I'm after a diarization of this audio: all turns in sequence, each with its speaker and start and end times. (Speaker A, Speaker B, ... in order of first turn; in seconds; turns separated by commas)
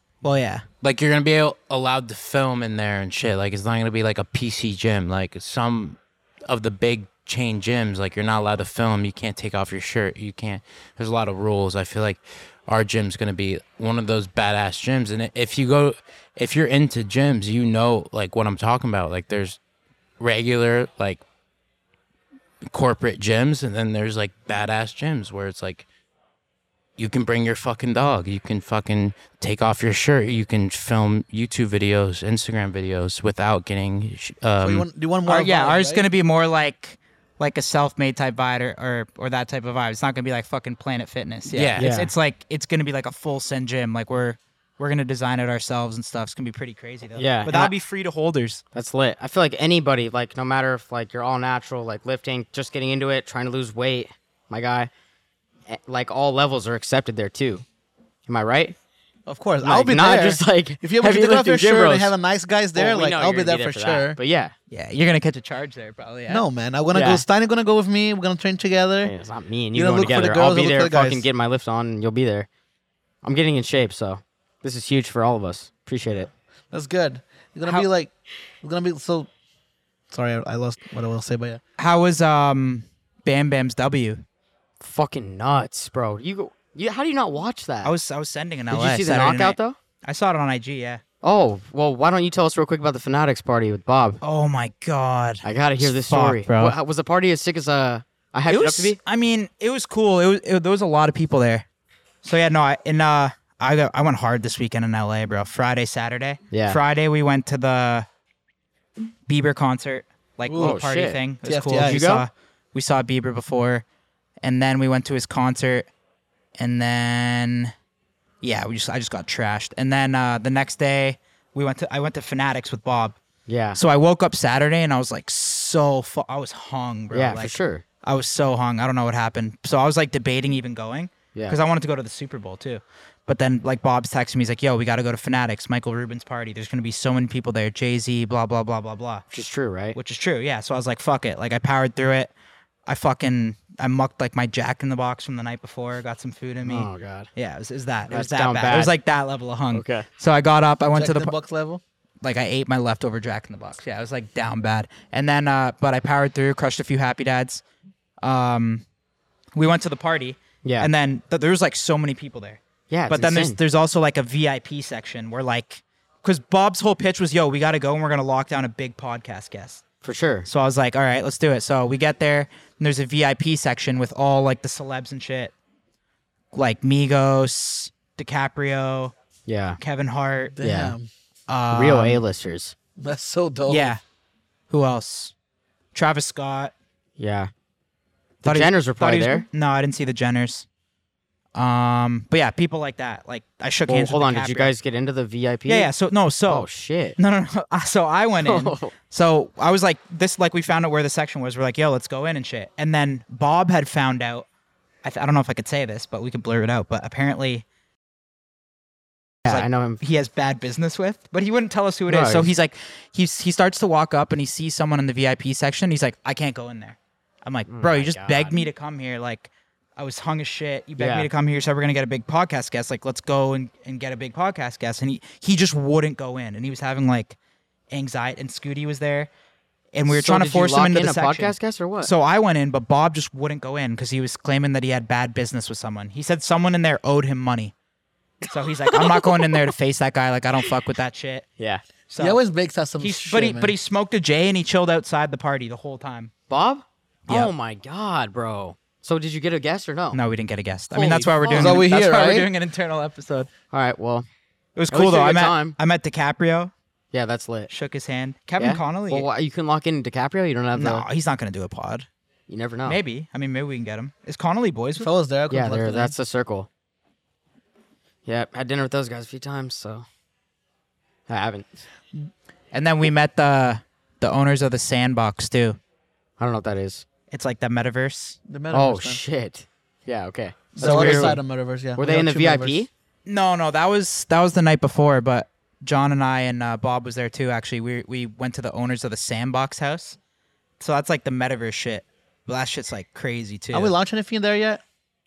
Speaker A: 0.2-0.7, Speaker B: 0.8-19.6, Speaker B: 20.2-21.2, Speaker B: 22.6-25.9, Speaker B: 27.0-34.9, Speaker C: 34.6-36.0, Speaker A: 35.3-48.6, Speaker B: 41.5-41.9, Speaker D: 41.8-42.1, Speaker D: 47.2-47.7, Speaker D: 48.7-54.9, Speaker D: 55.7-57.6, Speaker D: 58.3-58.8, Speaker C: 59.3-64.2, Speaker D: 59.6-62.1, Speaker D: 62.8-64.5, Speaker A: 64.7-66.5, Speaker C: 66.3-69.1, Speaker D: 66.9-67.2, Speaker D: 69.0-72.5, Speaker C: 69.7-71.2, Speaker D: 73.2-76.3, Speaker C: 76.7-78.1, Speaker C: 78.6-79.3, Speaker C: 80.1-81.6, Speaker A: 81.8-84.2, Speaker D: 84.8-88.0, Speaker A: 87.8-91.0, Speaker D: 88.7-89.8, Speaker D: 91.2-94.2, Speaker A: 94.2-96.8, Speaker D: 95.4-99.0, Speaker A: 98.5-101.7, Speaker A: 102.2-108.1, Speaker D: 106.5-106.8, Speaker A: 109.3-113.8, Speaker C: 110.5-110.9, Speaker D: 110.5-111.2, Speaker C: 111.4-112.2, Speaker D: 111.8-112.2, Speaker A: 114.4-115.9, Speaker A: 116.6-117.7, Speaker A: 118.4-123.2, Speaker D: 123.5-123.8, Speaker A: 123.7-142.3, Speaker D: 127.1-127.8, Speaker D: 139.3-140.0, Speaker A: 142.9-151.3, Speaker D: 146.6-147.3, Speaker D: 148.1-149.0, Speaker D: 149.7-150.1, Speaker C: 150.9-151.8, Speaker A: 152.2-157.6, Speaker A: 158.2-158.8, Speaker A: 159.6-169.8, Speaker D: 160.6-160.9, Speaker D: 162.9-163.6, Speaker D: 170.0-170.5, Speaker A: 170.5-175.5, Speaker A: 176.5-179.1, Speaker D: 179.5-179.8, Speaker A: 179.8-180.6, Speaker C: 180.6-181.1, Speaker D: 180.6-180.9, Speaker A: 181.5-182.2, Speaker D: 181.7-182.8, Speaker C: 183.0-184.0, Speaker A: 183.7-184.0, Speaker A: 184.7-185.3, Speaker A: 185.9-186.7, Speaker D: 187.2-187.5, Speaker D: 188.4-189.5, Speaker A: 188.4-190.7, Speaker A: 191.6-194.7, Speaker D: 193.9-195.9, Speaker A: 195.7-204.5, Speaker D: 196.5-197.2, Speaker D: 198.4-198.9, Speaker A: 205.0-207.7, Speaker D: 209.5-210.0, Speaker A: 209.5-227.4, Speaker D: 212.1-212.5, Speaker D: 217.7-218.6, Speaker D: 221.0-221.3, Speaker A: 227.9-229.3, Speaker A: 229.9-237.7, Speaker D: 230.1-232.1, Speaker A: 238.5-241.5, Speaker D: 238.9-239.4, Speaker A: 242.1-242.4, Speaker C: 242.2-243.8, Speaker A: 243.0-246.3, Speaker D: 246.5-250.2, Speaker A: 250.1-253.5, Speaker D: 250.9-251.8, Speaker C: 251.5-252.5, Speaker D: 253.7-254.3, Speaker A: 254.8-256.7, Speaker D: 254.9-255.8, Speaker D: 257.1-257.7, Speaker A: 257.7-259.3, Speaker D: 258.6-261.1, Speaker A: 260.7-262.1, Speaker D: 262.5-263.0, Speaker A: 262.9-265.1, Speaker C: 265.0-266.1, Speaker D: 265.5-266.7, Speaker D: 268.3-270.1, Speaker D: 271.3-271.8, Speaker A: 272.7-275.8, Speaker D: 276.4-277.1, Speaker A: 277.3-278.4, Speaker C: 278.5-279.2, Speaker D: 278.7-281.4, Speaker C: 280.8-282.9, Speaker A: 280.8-281.4, Speaker D: 282.0-282.9, Speaker A: 283.3-290.2, Speaker A: 290.8-293.9, Speaker C: 293.7-294.8